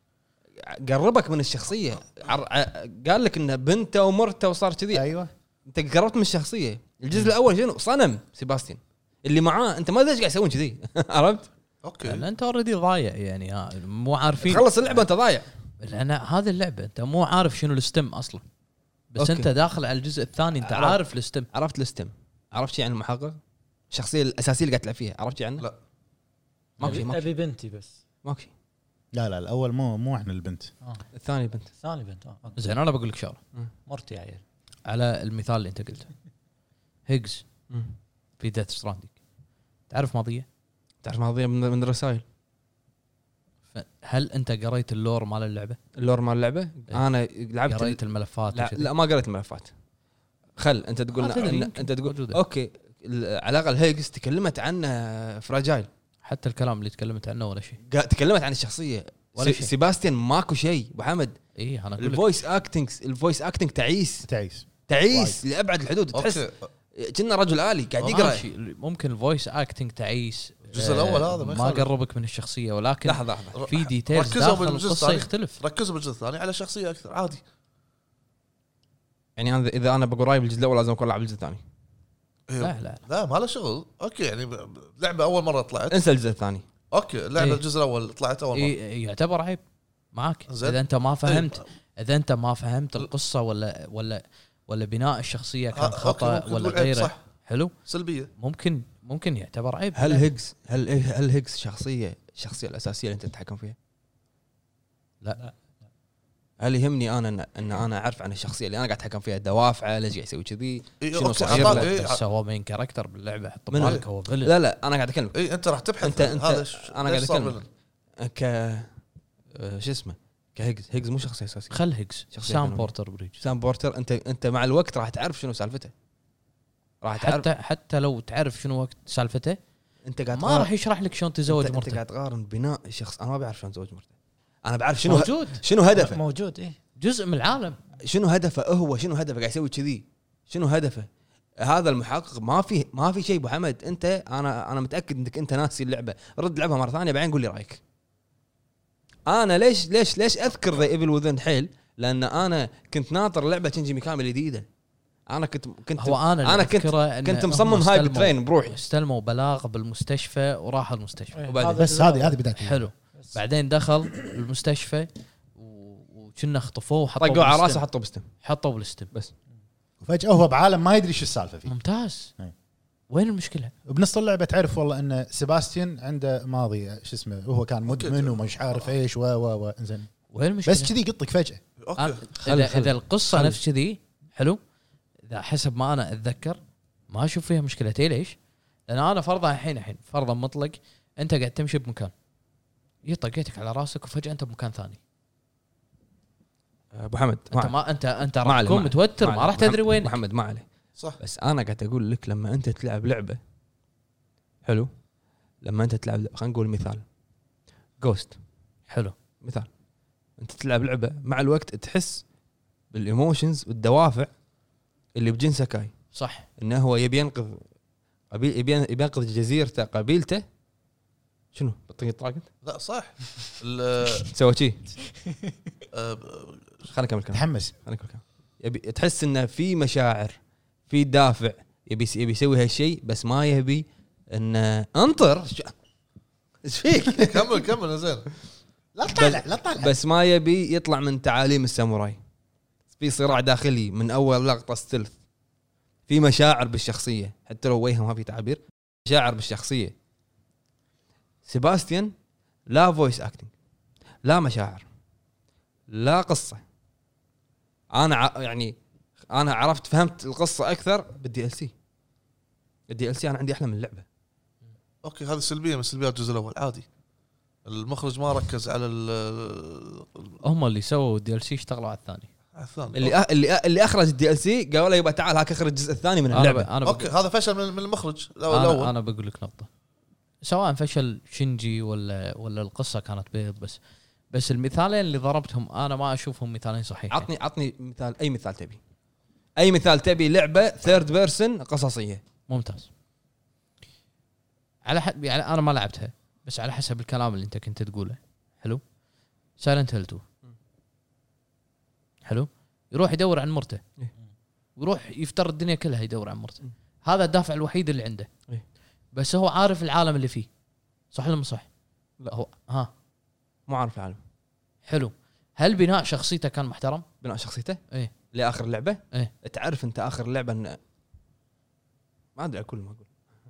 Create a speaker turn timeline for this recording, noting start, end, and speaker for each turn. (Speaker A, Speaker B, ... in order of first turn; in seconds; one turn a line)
Speaker A: 0.6-5.1
Speaker B: 4.9-5.3
Speaker A: 5.7-11.5
Speaker C: 11.8-12.3
Speaker D: 12.0-15.1
Speaker A: 14.4-15.5
Speaker D: 15.8-18.4
Speaker D: 19.1-21.5
Speaker A: 19.2-19.5
Speaker A: 20.6-21.0
Speaker A: 21.5-23.4
Speaker A: 23.9-25.6
Speaker D: 26.8-27.1
Speaker A: 26.8-27.3
Speaker E: 26.8-28.0
Speaker A: 28.2-28.5
Speaker B: 29.1-30.7
Speaker A: 31.1-31.7
Speaker E: 31.8-32.6
Speaker D: 32.6-33.4
Speaker E: 33.9-34.4
Speaker D: 34.9-36.1
Speaker D: 37.1-37.5
Speaker D: 38.4-39.1
Speaker D: 39.9-40.5
Speaker A: 41.0-42.2
Speaker D: 43.7-45.8
Speaker A: 46.0-48.0
Speaker D: 47.7-48.9
Speaker A: 48.5-49.7
Speaker A: 50.6-55.9
Speaker D: 51.1-52.4
Speaker D: 56.2-57.8
Speaker A: 57.9-61.4
Speaker D: 59.4-59.7
Speaker D: 61.6-62.3
Speaker A: 62.0-64.3
Speaker B: 64.2-65.4
Speaker A: 64.9-66.4
Speaker C: 66.1-66.6
Speaker A: 67.0-68.4
Speaker C: 68.0-68.4
Speaker D: 68.1-75.6
Speaker C: 70.7-71.9
Speaker A: 73.0-73.6
Speaker C: 73.5-77.4
Speaker A: 79.4-81.6
Speaker C: 82.5-86.0
Speaker D: 82.6-83.0
Speaker A: 85.9-86.6
Speaker C: 86.9-88.8
Speaker D: 87.4-87.6
Speaker D: 88.5-89.6
Speaker D: 90.1-97.7
Speaker C: 90.5-91.6
Speaker C: 95.7-97.2
Speaker C: 97.9-98.3
Speaker D: 98.4-100.3
Speaker A: 99.9-103.8
Speaker A: 106.6-111.9
Speaker C: 111.0-112.2
Speaker D: 111.4-114.5
Speaker A: 113.7-115.4
Speaker C: 113.8-114.0
Speaker C: 115.3-117.7
Speaker A: 116.0-117.6
Speaker A: 118.2-118.9
Speaker A: 119.5-121.8
Speaker D: 121.7-123.4
Speaker A: 122.3-122.9
Speaker A: 123.4-125.9
Speaker A: 127.0-127.5
Speaker D: 127.2-129.6
Speaker A: 130.1-130.7
Speaker D: 130.3-132.0
Speaker A: 131.4-134.1
Speaker A: 134.6-136.2
Speaker D: 135.1-135.6
Speaker E: 135.9-136.8
Speaker D: 137.0-137.8
Speaker A: 138.0-141.1
Speaker A: 141.6-147.8
Speaker A: 149.3-154.7
Speaker A: 155.3-158.8
Speaker D: 156.0-161.5
Speaker E: 161.3-162.4
Speaker A: 161.5-161.8
Speaker B: 161.8-162.9
Speaker D: 162.6-167.8
Speaker A: 167.2-168.3
Speaker D: 168.4-169.1
Speaker B: 170.0-171.7
Speaker D: 171.7-172.3
Speaker D: 173.1-173.7
Speaker B: 173.9-180.1
Speaker C: 177.9-178.4
Speaker D: 180.3-180.9
Speaker B: 180.6-181.6
Speaker C: 181.8-182.2
Speaker D: 182.0-184.6
Speaker A: 182.4-183.6
Speaker D: 185.3-186.6
Speaker D: 187.1-188.4
Speaker D: 188.9-192.1
Speaker D: 193.1-195.0
Speaker A: 196.9-197.8
Speaker D: 197.5-200.2
Speaker A: 198.4-200.7
Speaker A: 201.2-203.4
Speaker A: 204.6-204.9
Speaker A: 205.6-207.0
Speaker A: 208.0-208.3
Speaker D: 208.9-209.1
Speaker A: 209.4-209.7
Speaker A: 210.4-212.2
Speaker A: 212.9-214.3
Speaker A: 215.1-215.9
Speaker D: 216.1-216.4
Speaker A: 216.6-217.6
Speaker A: 218.3-220.4
Speaker A: 221.5-222.4
Speaker C: 222.6-224.3
Speaker A: 224.2-224.9
Speaker C: 225.9-226.7
Speaker A: 226.9-230.4
Speaker B: 227.3-227.7
Speaker A: 230.9-235.7
Speaker A: 236.6-237.6
Speaker C: 237.1-238.3
Speaker B: 238.9-239.9
Speaker A: 239.1-242.2
Speaker A: 243.0-245.1
Speaker A: 246.1-249.9
Speaker A: 251.4-252.1
Speaker A: 252.7-253.5
Speaker A: 254.2-254.9
Speaker A: 255.9-256.6
Speaker A: 257.9-258.8
Speaker A: 259.3-261.7
Speaker A: 262.9-264.1
Speaker C: 265.0-266.9
Speaker C: 267.6-270.4
Speaker D: 270.4-272.3
Speaker C: 272.6-273.2
Speaker A: 272.9-276.7
Speaker D: 276.3-277.1
Speaker C: 276.8-278.9
Speaker D: 278.5-279.7
Speaker D: 280.4-283.8
Speaker D: 284.3-287.3
Speaker A: 287.1-288.8
Speaker A: 289.6-292.2
Speaker D: 292.5-292.9
Speaker D: 294.9-298.8
Speaker D: 299.6-300.2
Speaker D: 302.3-303.8
Speaker D: 304.8-308.3
Speaker D: 309.1-310.5
Speaker D: 311.1-311.7
Speaker D: 312.3-312.9
Speaker A: 313.7-314.2
Speaker D: 314.9-317.1
Speaker A: 317.2-320.8
Speaker A: 322.4-323.1